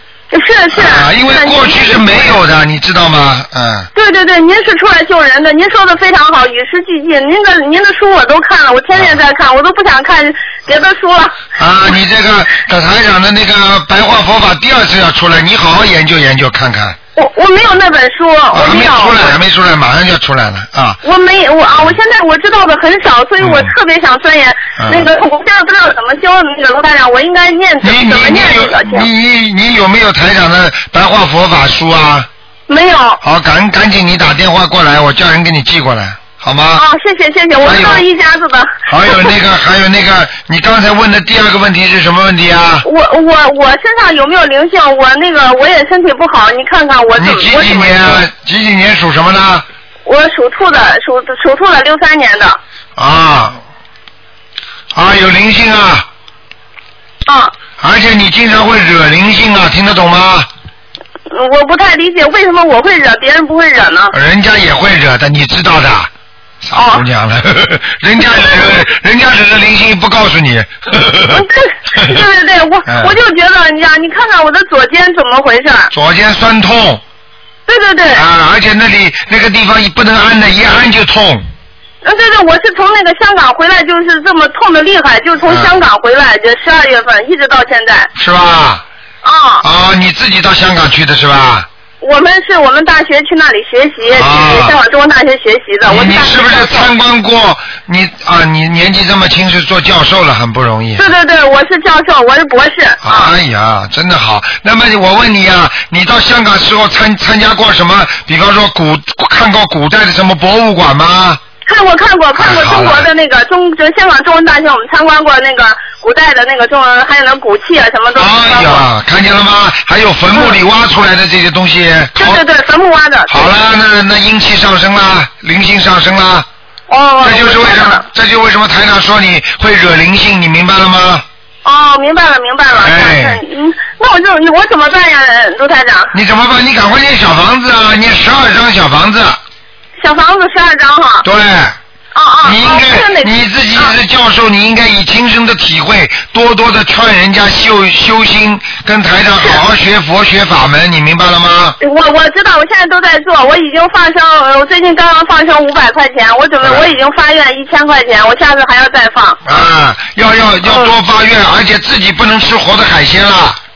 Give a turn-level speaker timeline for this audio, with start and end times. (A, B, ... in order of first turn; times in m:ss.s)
0:00.3-0:02.3 A
0:00.7-0:03.9 B
0:04.0-0:11.4 A
0:11.6-0:17.0 B
0:17.2-0:19.4 A
0:18.5-0:21.0 B
0:21.0-0:29.1 A
0:23.4-0:23.7 B
0:24.8-0:25.1 B
0:27.8-0:32.3 B
0:32.7-0:33.2 A
0:33.2-0:36.8 B
0:36.8-0:39.3 A
0:37.6-0:38.0 B
0:38.9-0:42.8 B
0:42.8-0:48.2 A
0:47.2-0:49.7 B
0:50.1-0:52.6 A
0:53.0-0:53.6 B
0:54.9-0:56.1 B
0:57.3-0:57.5 A
0:57.8-1:00.5 B
1:01.3-1:04.1 A
1:04.1-1:06.1 B
1:06.6-1:12.2 B
1:06.7-1:07.0 A
1:11.3-1:15.9 A
1:12.9-1:13.1 B
1:15.9-1:17.0 B
1:17.7-1:18.2 A
1:18.2-1:21.5 B
1:22.0-1:28.1 A
1:25.4-1:25.8 B
1:28.2-1:28.8 B
1:29.2-1:29.6 A
1:29.6-1:31.7 B
1:32.0-1:36.9 A
1:34.1-1:34.8 B
1:35.8-1:41.1 B
1:41.0-1:43.3 A
1:43.0-1:51.4 B
1:51.6-1:58.8 A
1:52.4-1:53.1 B
1:58.2-2:02.4 B
2:02.2-2:03.5 A
2:03.3-2:06.5 B
2:06.9-2:08.0 A
2:07.2-2:11.2 B
2:11.6-2:16.1 A
2:12.7-2:13.4 B
2:16.1-2:19.4 B
2:20.0-2:21.2 A
2:21.2-2:21.8 B
2:22.2-2:23.9 A
2:22.4-2:31.8 B
2:31.8-2:39.4 A
2:36.6-2:36.9 B
2:39.4-2:43.6 B
2:40.7-2:40.9 A